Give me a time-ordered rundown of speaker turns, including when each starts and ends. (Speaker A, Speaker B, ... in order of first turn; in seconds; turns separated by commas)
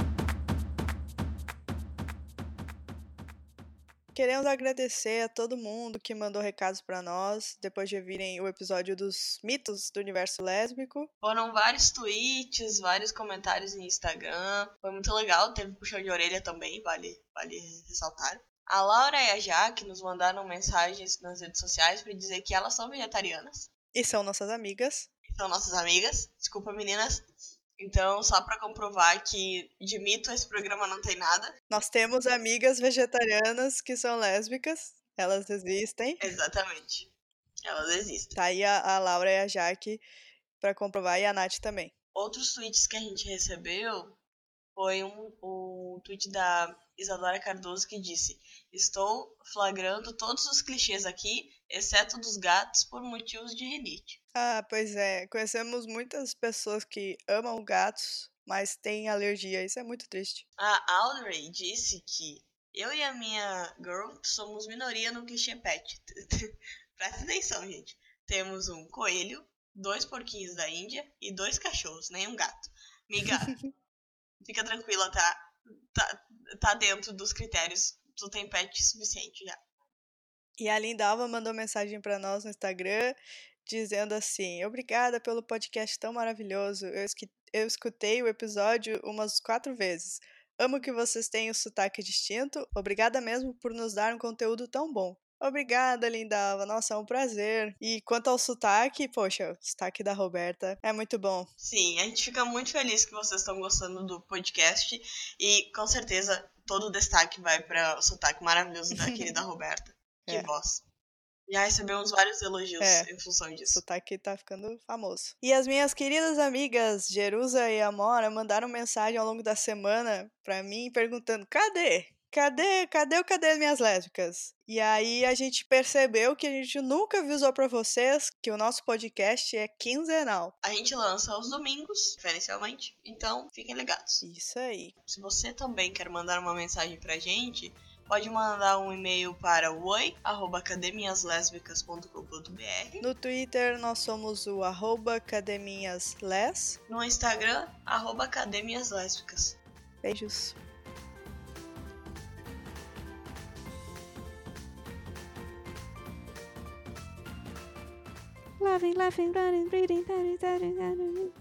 Speaker A: 4.1-11.1, Speaker B: 11.2-23.7, Speaker A: 23.9-25.1, Speaker B: 25.3-27.2, Speaker B: 27.8-31.5, Speaker A: 31.7-36.3, Speaker B: 36.2-37.1, Speaker B: 37.6-38.4, Speaker A: 38.4-40.0, Speaker A: 40.6-41.9, Speaker B: 42.1-44.2, Speaker B: 44.7-54.2, Speaker A: 54.3-60.4, Speaker B: 60.6-73.5, Speaker B: 74.4-79.6, Speaker A: 80.6-101.5, Speaker B: 101.6-110.8, Speaker B: 111.5-113.8, Speaker A: 112.8-113.1, Speaker A: 113.7-130.5, Speaker B: 130.6-134.2, Speaker A: 134.2-134.9, Speaker B: 135.0-143.1, Speaker A: 143.0-146.8, Speaker B: 146.9-149.6, Speaker A: 150.0-150.6, Speaker C: 158.6-161.3